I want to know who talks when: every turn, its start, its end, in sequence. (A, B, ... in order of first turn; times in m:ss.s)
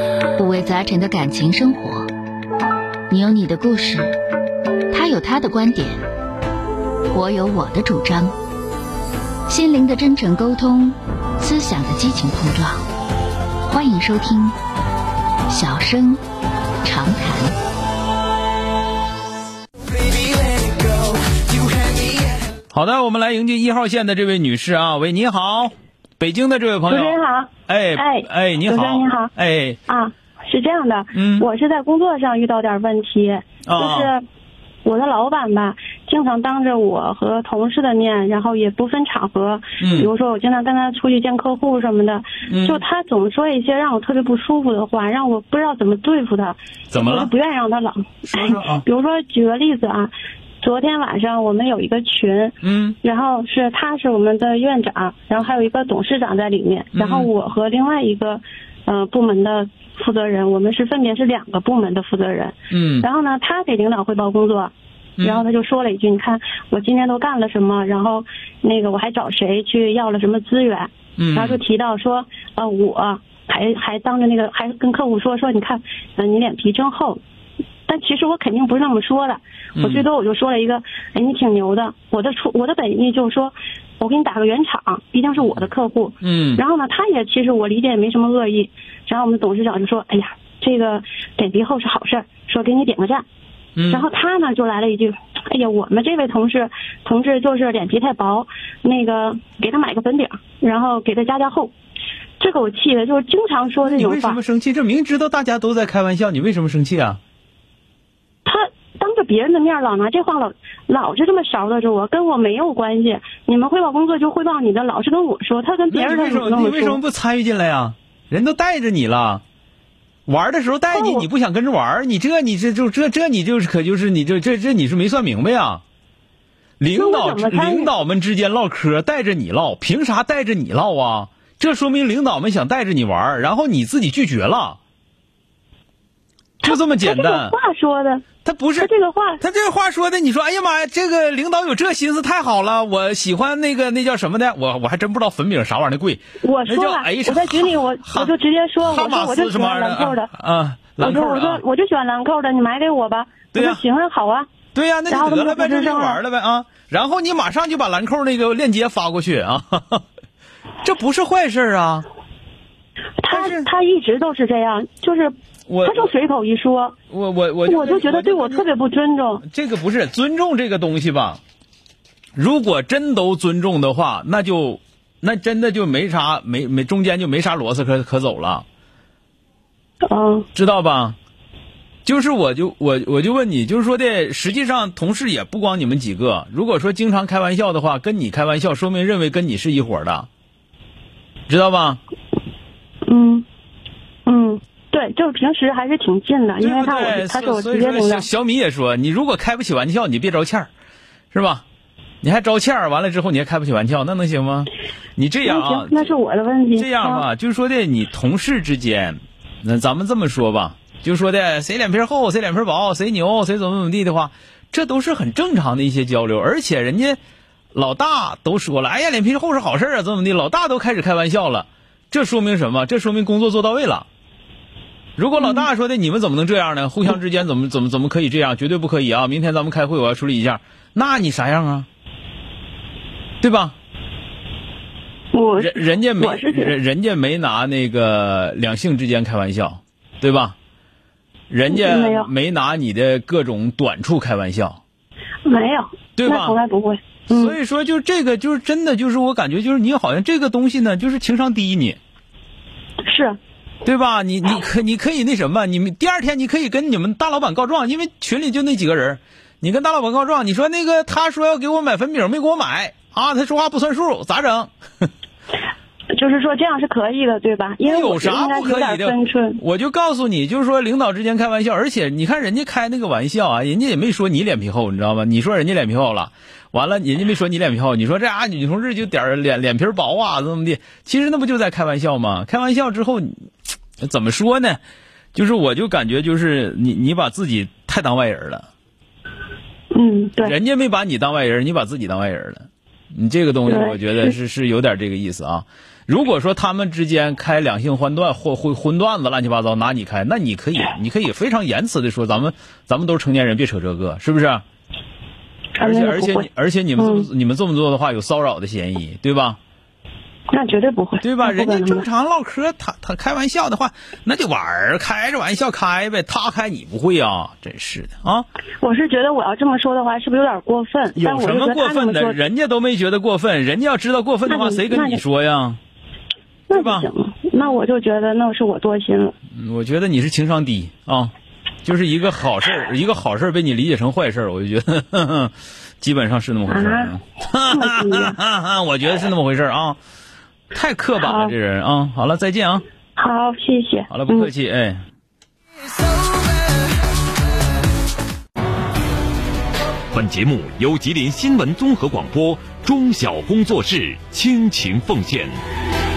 0:00.4-0:02.1 A
0:03.1-0:04.1 A
0:04.9-0:06.0 A
0:07.1-0:08.3 A
0:09.5-0:12.8 A
0:13.7-0:14.6 A
0:15.5-0:16.2 A
0:16.8-0:17.5 A
0:22.7-0:29.8 B
0:26.9-0:29.3 C
0:29.9-0:34.2 C
0:31.1-0:31.4 B
0:33.6-0:34.1 B
0:34.8-1:17.2 C
0:39.8-0:40.1 B
0:42.5-0:42.8 B
0:46.9-0:47.3 B
0:48.3-0:48.8 B
0:52.6-0:53.0 B
0:56.9-0:57.3 B
1:02.7-1:03.1 B
1:05.2-1:05.4 B
1:11.2-1:11.6 B
1:17.9-1:33.2 C
1:19.8-1:20.0 B
1:26.2-1:26.6 B
1:33.8-1:34.0 B
1:33.9-1:41.7 C
1:42.4-1:44.4 C
1:43.8-1:47.2 B
1:48.4-1:57.0 C
1:55.9-1:59.4 B
2:00.3-2:05.8 B
2:00.9-2:01.2 C
2:06.8-2:14.8 B
2:06.9-2:07.9 C
2:16.6-2:17.6 B
2:16.6-2:18.2 C
2:18.4-2:31.6 B
2:18.8-2:19.4 C
2:26.4-2:30.3 C
2:31.0-2:34.5 C
2:33.5-2:33.8 B
2:34.7-2:40.0 B
2:35.1-2:36.2 C
2:40.8-2:42.0 B
2:43.2-2:45.3 C
2:43.3-2:43.7 B
2:45.7-2:46.1 B
2:45.8-2:46.9 C
2:47.1-2:48.7 B
2:47.6-2:49.4 C
2:49.4-2:51.4 B
2:52.4-2:58.6 B
3:00.0-3:00.5 C
3:00.5-3:01.2 B
3:02.0-3:10.3 B
3:11.5-3:12.0 B
3:13.1-3:13.4 C
3:14.2-3:18.3 C
3:16.6-3:20.7 B
3:21.3-3:21.6 B
3:22.2-3:26.1 B
3:25.4-3:27.2 C
3:26.8-3:37.2 B
3:37.7-3:44.0 B
3:45.2-3:51.9 B
3:45.4-3:45.6 C
3:53.4-3:53.7 B
3:55.3-3:56.8 C
3:55.6-4:00.5 B
4:01.5-4:04.8 B
4:01.7-4:02.3 C
4:05.4-4:07.6 C
4:06.2-4:06.6 B
4:07.3-4:12.0 B
4:13.0-4:13.4 C
4:13.8-4:25.1 B
4:26.1-4:29.6 C
4:27.8-4:43.3 B
4:44.0-4:44.8 B
4:45.3-4:48.7 B
4:49.9-4:50.5 C
4:50.4-5:04.6 B
4:53.7-4:54.3 C
5:05.8-5:07.2 C
5:05.8-5:09.6 B
5:10.5-5:12.0 C
5:11.2-5:18.4 B
5:18.8-5:22.4 C
5:21.2-5:25.8 B
5:24.5-5:25.2 C
5:26.7-5:29.3 C
5:26.7-5:27.1 B
5:29.5-5:31.3 B
5:31.8-5:40.0 B
5:36.7-5:37.1 C
5:37.7-5:38.4 C
5:40.7-5:42.8 B
5:41.2-5:41.5 C
5:43.2-5:44.5 C
5:44.1-5:45.0 B
5:50.1-5:55.5 D